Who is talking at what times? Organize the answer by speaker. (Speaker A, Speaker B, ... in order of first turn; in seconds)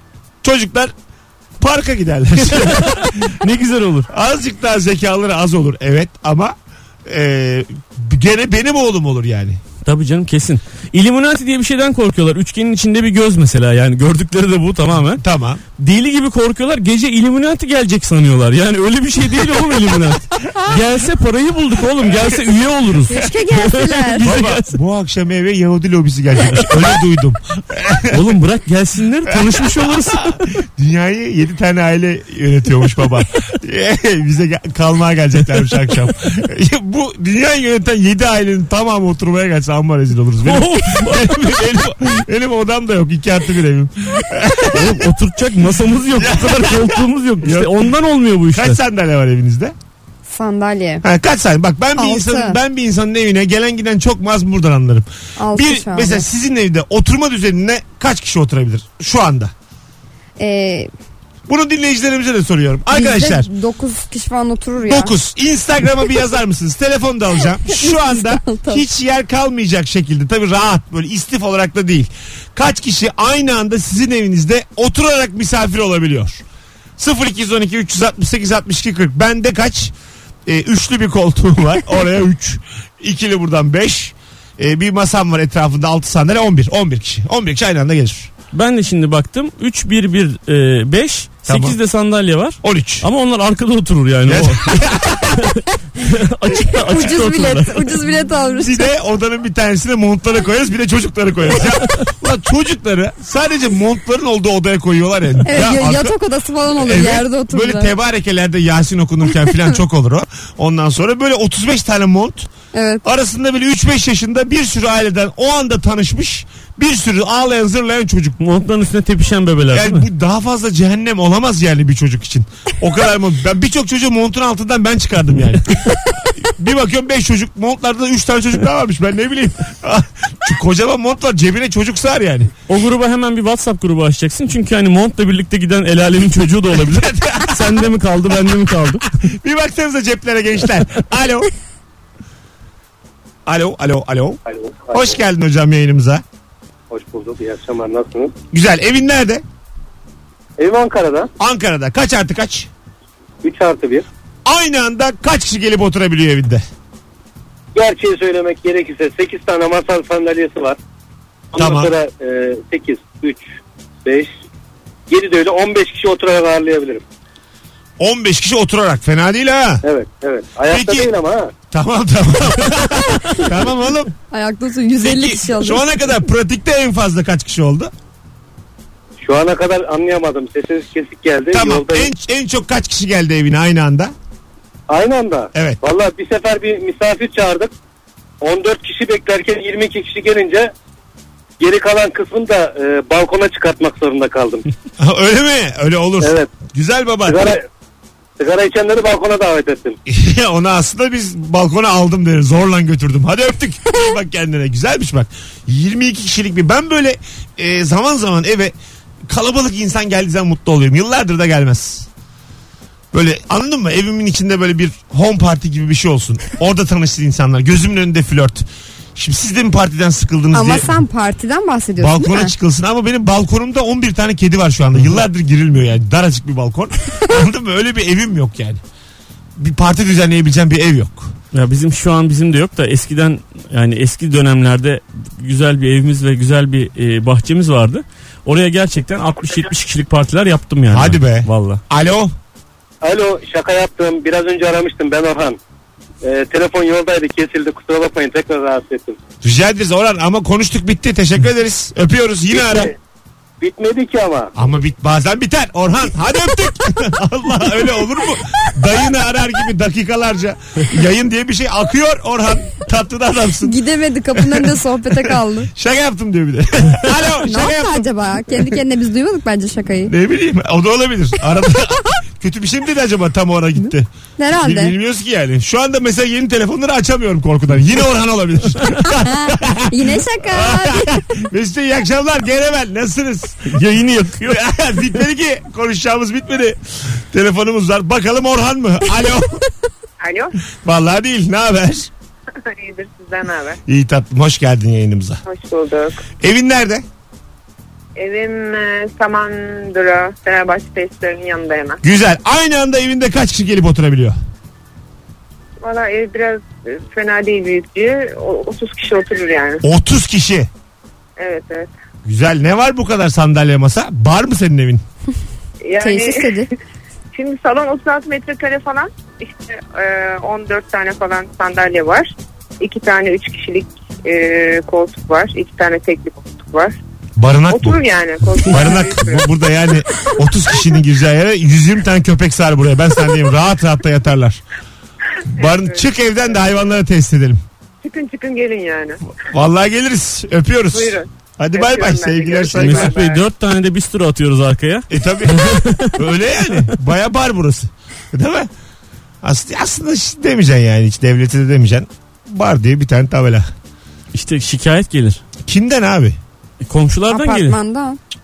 Speaker A: 0.4-0.9, 1.6-3.4, 4.1-6.5, 7.1-9.6, 15.2-15.6, 24.2-28.4, 29.3-45.1, 46.2-47.9, 48.5-49.8, 51.0-59.5, 61.5-63.5, 64.8-76.4, 77.0-79.9, 80.5-88.3, 91.5-91.8, 92.6-93.1, 94.3-95.5, 98.6-106.2, 106.8-112.5, 113.0-118.4, 119.7-132.5, 136.7-137.9, 139.2-141.5, 143.5-144.4, 144.9-146.2, 148.5-149.4, 151.4-152.7, 154.4-156.6, 161.6-161.9, 168.0-169.8, 170.7-171.1, 171.7-174.1, 175.0-177.9, 181.5-184.1, 195.0-197.6, 200.1-208.8, 209.3-212.1, 213.1-220.9, 222.0-228.8, 229.6-231.3, 240.9-242.3, 249.4-252.9, 254.6-263.8, 264.3-268.1, 270.1-274.1, 274.6-283.8, 284.4-289.6, 290.8-292.1, 293.9-295.4, 296.4-297.1, 302.0-304.4, 309.8-310.7, 312.2-315.0, 327.4-328.0, 328.6-334.6, 335.5-337.6, 339.4-343.2, 345.1-348.7, 349.4-353.7, 355.6-356.4
Speaker B: 2.5-4.1, 9.8-15.2, 15.8-24.7, 28.1-30.4, 40.4-41.5, 44.7-48.8, 88.5-97.9, 118.4-120.1, 132.7-139.1, 231.5-241.8, 283.6-284.6, 342.7-346.2, 354.3-355.4, 356.8-357.8
Speaker C: 23.1-24.3, 50.3-51.0, 52.0-52.6, 55.4-56.3, 60.4-60.9, 62.9-65.1, 67.7-68.8, 96.8-98.9, 105.5-108.0, 112.7-113.0, 174.3-175.8, 220.5-222.5, 263.6-265.7, 267.4-270.1, 274.4-274.9, 279.2-281.2, 316.0-316.7, 357.3-358.2
Speaker D: 144.5-145.1, 146.9-148.3, 150.6-151.3, 153.4-154.1, 157.8-160.8, 161.5-163.4, 164.1-164.3, 165.1-167.0, 169.8-171.5, 179.2-182.1, 184.9-187.7, 188.4-190.7, 191.6-194.7, 196.2-196.5, 197.3-197.6, 198.4-200.0, 243.0-245.6, 246.2-249.2, 252.6-252.9, 253.6-254.5
Speaker E: 290.2-290.6, 292.6-293.8, 295.4-296.2, 298.2-302.0, 305.8-309.8, 311.4-311.9, 315.8-316.5, 317.3-327.0, 327.7-329.5, 335.6-336.0, 338.0-339.2, 340.9-343.4